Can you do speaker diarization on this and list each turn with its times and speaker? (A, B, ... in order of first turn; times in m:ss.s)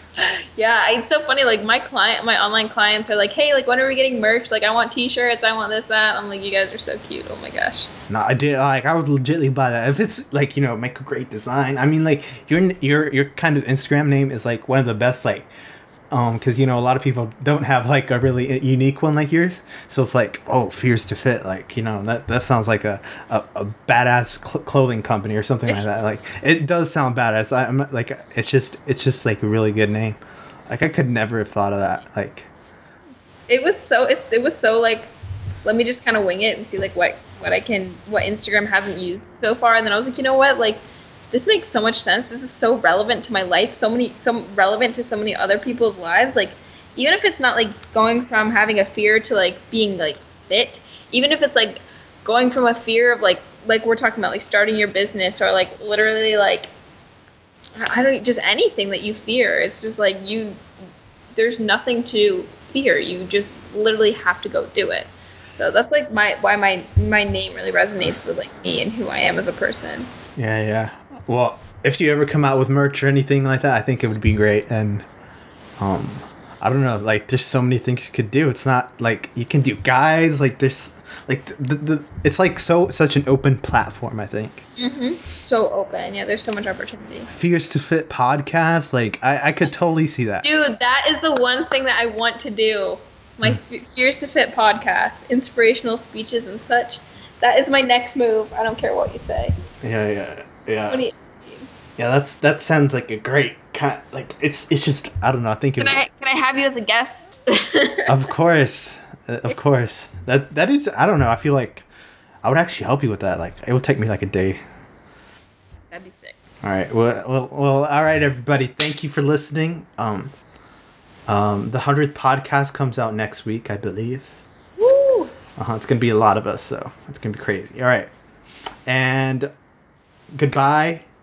0:00.1-0:07.9 A
0:08.1-0:15.5 B
0:16.1-0:32.5 B
0:25.7-0:26.0 A
0:33.5-0:35.1 A
0:35.6-0:56.7 A
0:57.8-1:00.6 A
1:01.3-1:10.1 A
1:10.4-1:15.0 B
1:15.8-1:24.6 B
1:24.8-1:27.3 A
1:27.3-1:30.5 B
1:30.4-1:39.6 A
1:39.8-1:41.0 B
1:40.9-1:41.7 A
1:42.0-1:46.0 B
1:45.8-1:48.1 A
1:48.1-1:51.8 B
1:52.4-1:54.6 B
1:55.9-1:56.4 A
1:56.6-2:00.3 B
2:01.3-2:04.4 B
2:04.8-2:05.3 A
2:05.6-2:08.1 B
2:08.8-2:09.5 B
2:10.3-2:11.0 B